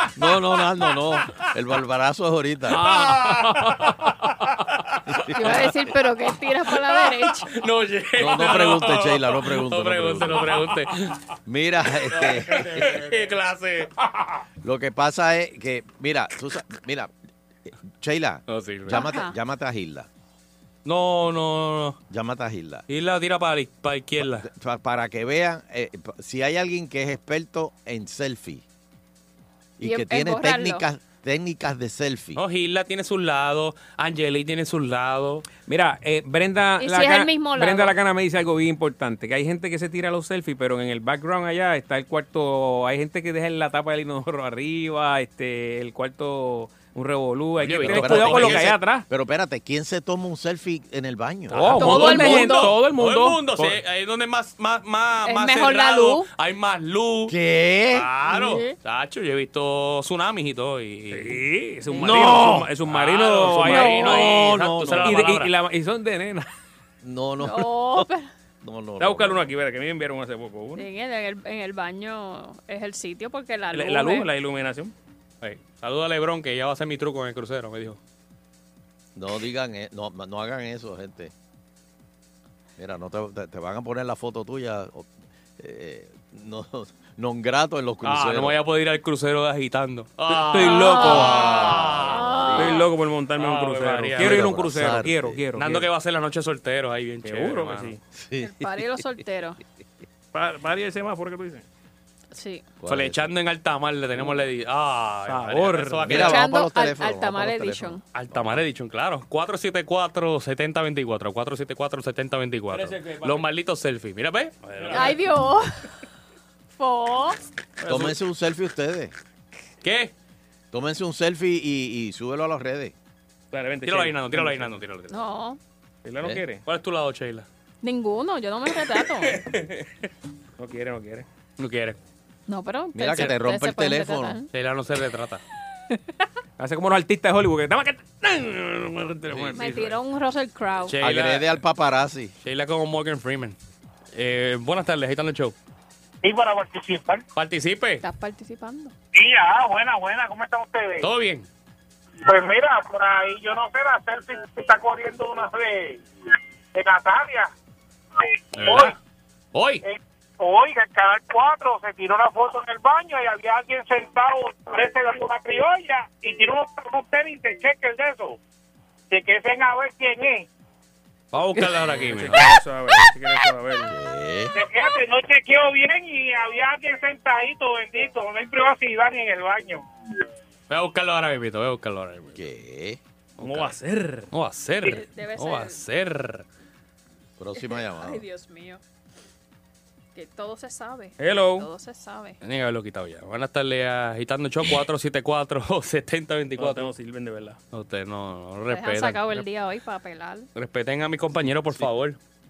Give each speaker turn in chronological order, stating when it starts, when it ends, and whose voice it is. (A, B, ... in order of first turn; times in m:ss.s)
0:00.2-0:02.8 A
0:02.7-0:04.4 B
0:02.7-0:04.3 C
0:04.9-0:05.5 C
0:05.1-0:05.8 A
0:05.3-0:07.5 D
0:06.9-0:11.2 C
0:08.2-0:10.6 A
0:11.5-0:12.9 A
0:12.2-0:13.3 B
0:12.2-0:13.9 C
0:14.6-0:17.1 A
0:17.7-0:20.1 A
0:18.5-0:19.2 C
0:18.9-0:19.4 D
0:20.8-0:22.0 C
0:22.1-0:22.9 A
0:22.9-0:24.5 C
0:24.2-0:28.6 A
0:29.8-0:32.4 A
0:29.8-0:30.8 D
0:32.4-0:35.5 C
0:35.7-0:49.0 B
0:36.8-0:38.0 D
0:47.6-0:48.7 C
0:47.8-0:52.4 A
0:51.5-0:57.3 C
0:51.5-0:53.8 B
0:51.8-0:52.8 D
0:55.2-0:56.3 D
0:57.3-0:58.1 A
0:57.9-1:01.4 C
0:58.2-0:58.8 D
1:01.1-1:06.5 B
1:02.0-1:05.5 C
1:03.7-1:04.1 D
1:04.1-1:05.2 A
1:07.0-1:08.1 A
1:07.4-1:08.3 D
1:08.6-1:09.5 A
1:09.0-1:10.8 B
1:10.8-1:14.3 D
1:13.7-1:14.9 B
1:15.4-1:18.0 C
1:19.2-1:21.3 A
1:22.8-1:28.6 A
1:28.0-1:32.6 C
1:30.5-1:31.4 B
1:30.6-1:32.9 D
1:31.3-1:32.7 A
1:32.6-1:35.9 B
1:33.4-1:35.0 C
1:34.2-1:35.4 A
1:35.6-1:38.0 C
1:37.2-1:38.0 B
1:38.1-1:39.0 A
1:38.4-1:39.6 D
1:40.3-1:41.6 B
1:42.3-1:42.7 D
1:42.8-1:43.3 A
1:42.9-1:46.4 C
1:45.3-1:46.3 B
1:46.1-1:48.6 A
1:46.2-1:48.0 D
1:48.1-1:55.2 C
1:52.7-1:53.5 B
1:54.8-1:55.2 B
1:54.9-1:55.7 D
1:56.8-1:57.4 D
1:57.8-1:58.2 B
1:57.9-1:59.1 A
1:59.8-2:00.1 C
2:00.7-2:02.9 A
2:03.5-2:04.8 B
2:03.8-2:05.2 C
2:05.1-2:05.6 D
2:06.0-2:06.6 B
2:06.2-2:07.5 C
2:07.8-2:09.4 D
2:09.4-2:09.6 B
2:10.6-2:11.3 B
2:11.6-2:12.0 C
2:12.5-2:14.5 D
2:12.9-2:14.4 A
2:14.5-2:15.4 C
2:16.6-2:20.0 B
2:19.3-2:19.6 A
2:19.6-2:21.0 D
2:20.9-2:21.6 C
2:21.0-2:22.3 A
2:22.4-2:23.6 C
2:24.1-2:25.6 C
2:26.2-2:27.2 E
2:27.4-2:28.0 C
2:28.0-2:28.9 D
2:29.2-2:31.1 E
2:31.0-2:31.5 C
2:32.3-2:36.0 E
2:36.7-2:37.5 E
2:38.6-2:39.0 C
2:38.6-2:39.0 E
2:39.5-2:39.8 C
2:39.8-2:48.4 E
2:49.1-2:50.5 E
2:51.3-2:52.6 C
2:51.6-2:53.9 B
2:53.8-2:54.5 A
2:54.5-2:59.8 E
3:00.7-3:02.4 C
3:02.3-3:03.0 A
3:03.4-3:04.3 B
3:03.4-3:03.8 C
3:04.3-3:06.4 C
3:04.8-3:05.8 D
3:07.4-3:08.2 A
3:07.6-3:08.8 D
3:10.1-3:12.4 D
3:11.2-3:11.7 B
3:12.4-3:16.9 C
3:16.6-3:17.6 B
3:17.7-3:19.4 C
3:18.7-3:20.5 D
3:20.6-3:22.2 C